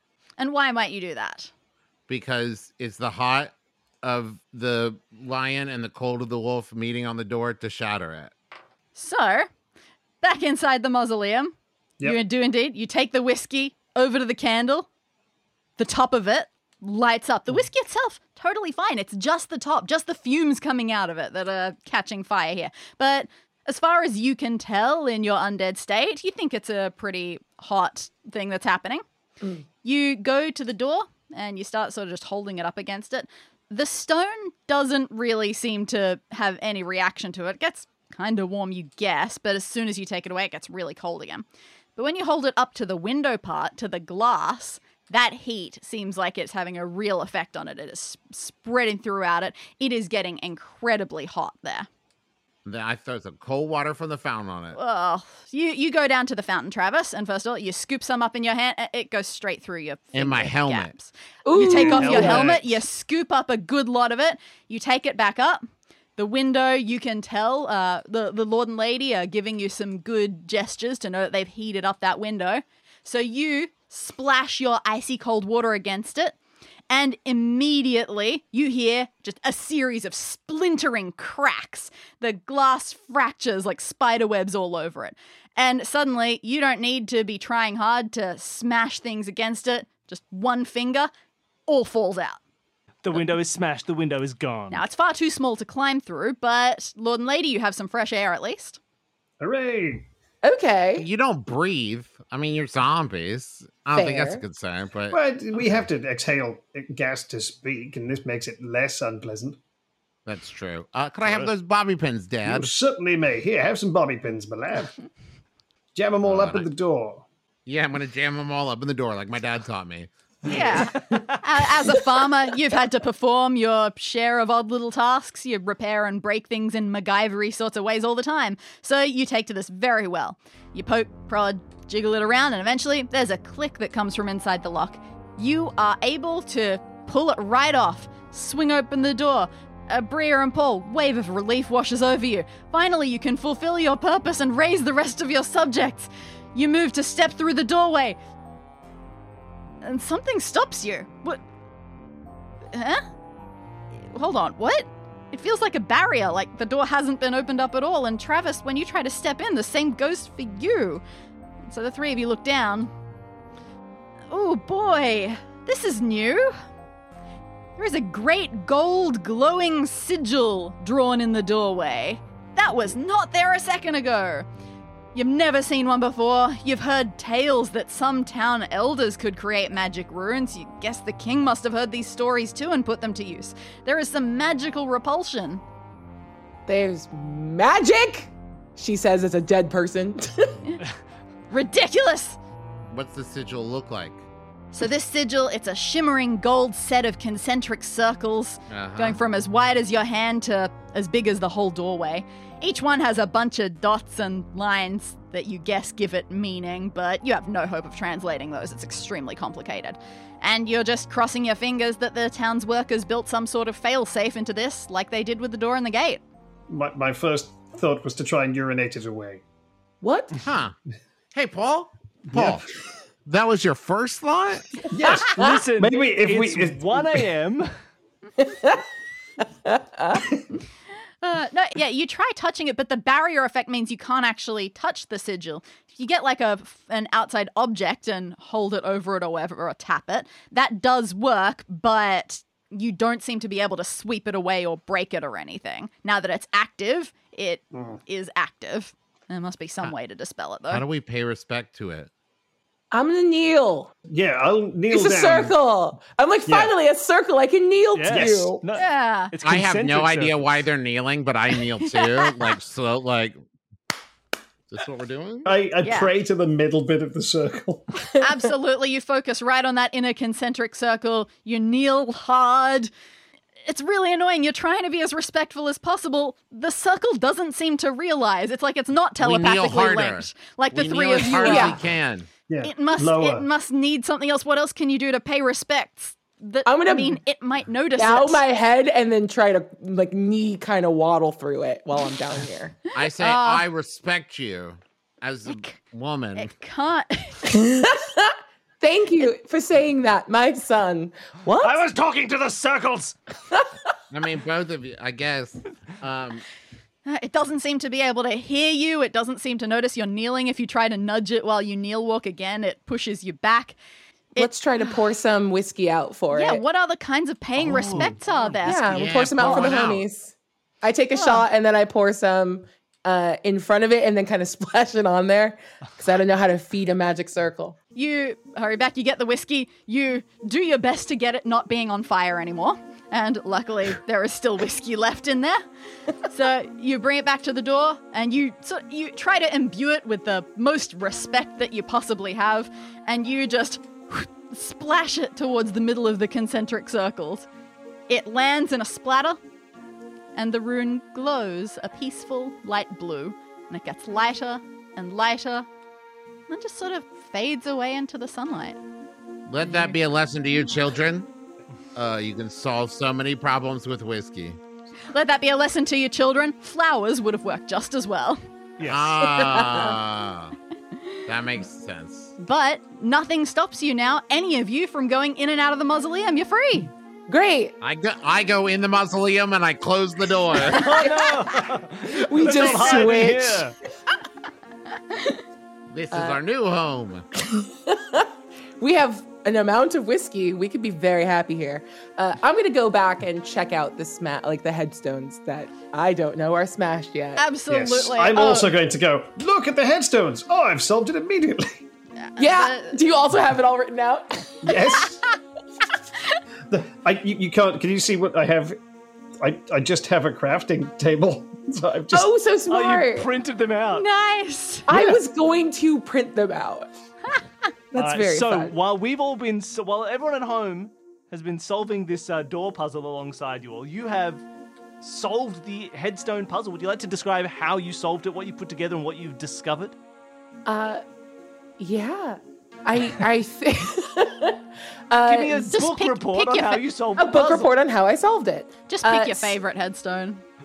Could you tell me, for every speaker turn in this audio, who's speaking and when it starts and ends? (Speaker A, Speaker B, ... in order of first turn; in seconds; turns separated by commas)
Speaker A: 0.4-1.5, Speaker B: 2.1-8.3, Speaker A: 8.9-9.5, Speaker A: 10.2-14.9, Speaker A: 15.8-29.0, Speaker A: 29.8-41.4, Speaker A: 42.0-51.9, Speaker B: 52.6-54.8, Speaker A: 54.7-65.6, Speaker B: 60.1-60.9, Speaker C: 61.4-62.5, Speaker D: 61.6-62.8, Speaker A: 66.2-76.3, Speaker A: 76.9-91.1, Speaker A: 91.7-92.4, Speaker D: 93.0-94.8, Speaker A: 94.7-98.8, Speaker E: 99.4-100.1, Speaker C: 100.4-101.1, Speaker B: 101.0-105.8, Speaker C: 103.9-104.4, Speaker E: 105.1-109.6, Speaker B: 110.2-112.7, Speaker D: 111.2-111.5, Speaker E: 112.4-115.0, Speaker E: 115.9-117.3, Speaker B: 116.2-116.7, Speaker B: 117.7-120.1, Speaker E: 120.4-121.2, Speaker A: 120.5-148.2, Speaker D: 121.1-121.4, Speaker A: 149.8-151.4, Speaker A: 152.7-153.0, Speaker A: 154.0-161.0, Speaker A: 161.6-162.9, Speaker A: 164.3-166.5, Speaker A: 167.8-174.4, Speaker A: 175.1-185.6, Speaker C: 186.7-190.7, Speaker A: 191.5-192.4, Speaker B: 192.9-194.2, Speaker A: 194.7-216.2, Speaker B: 198.7-199.2, Speaker E: 216.7-219.4, Speaker C: 220.0-220.3, Speaker B: 220.4-220.7, Speaker B: 221.3-222.7, Speaker E: 222.3-222.7, Speaker B: 223.2-224.9, Speaker E: 224.9-227.3, Speaker D: 225.1-227.7, Speaker C: 225.2-225.6, Speaker C: 228.4-228.8, Speaker C: 229.4-230.2, Speaker A: 231.2-250.8, Speaker E: 247.7-248.0, Speaker B: 250.7-252.1, Speaker C: 252.9-253.9, Speaker E: 254.1-255.5, Speaker C: 254.9-258.6, Speaker E: 256.5-256.7, Speaker D: 257.9-260.4, Speaker E: 258.1-258.5, Speaker A: 258.7-259.3, Speaker B: 259.4-263.4, Speaker A: 261.8-262.3, Speaker B: 264.7-265.5, Speaker E: 265.4-268.1, Speaker A: 265.8-266.1, Speaker A: 268.2-272.9, Speaker A: 273.6-281.8, Speaker B: 279.2-282.3, Speaker C: 281.4-281.8, Speaker E: 282.5-283.5, Speaker A: 282.6-288.4, Speaker C: 286.6-287.2, Speaker C: 287.9-292.8, Speaker B: 292.9-296.5, Speaker A: 293.0-293.6, Speaker A: 295.5-295.7, Speaker A: 296.4-297.5, Speaker C: 297.4-301.8, Speaker D: 301.6-303.2, Speaker B: 304.1-306.4, Speaker A: 307.1-313.8, Speaker A: 314.3-314.9, Speaker C: 314.4-316.6, Speaker A: 316.3-319.5, Speaker D: 317.6-319.8, Speaker C: 318.6-327.8, Speaker B: 318.9-320.0, Speaker A: 321.1-321.4, Speaker A: 327.9-335.6, Speaker A: 336.2-347.5, Speaker A: 348.1-349.4, Speaker A: 350.3-355.7, Speaker A: 356.5-358.8, Speaker B: 359.5-361.3, Speaker B: 361.9-364.6, Speaker A: 365.1-368.4, Speaker D: 368.8-369.4, Speaker B: 368.8-370.6, Speaker C: 369.4-369.9, Speaker B: 371.3-372.4, Speaker A: 372.4-376.9, Speaker C: 377.3-377.7, Speaker B: 377.8-381.0, Speaker D: 380.7-383.8, Speaker C: 381.0-381.3, Speaker C: 382.1-383.7, Speaker E: 382.9-383.2, Speaker A: 385.1-385.4, Speaker B: 385.9-387.2, Speaker C: 386.1-386.4, Speaker C: 387.4-397.4, Speaker A: 397.4-398.7, Speaker E: 397.7-401.8, Speaker A: 402.2-403.0, Speaker C: 402.4-404.8, Speaker E: 404.6-405.3, Speaker E: 406.7-408.8, Speaker E: 409.4-412.3, Speaker C: 412.1-413.3, Speaker D: 412.7-414.1, Speaker A: 413.9-414.9, Speaker C: 414.9-416.9, Speaker D: 414.9-415.2, Speaker C: 417.9-418.7, Speaker D: 417.9-424.4, Speaker D: 425.0-429.9, Speaker C: 430.6-431.0, Speaker C: 431.8-435.7, Speaker D: 435.2-437.7, Speaker A: 435.7-436.8, Speaker C: 437.1-439.6, Speaker A: 438.9-440.4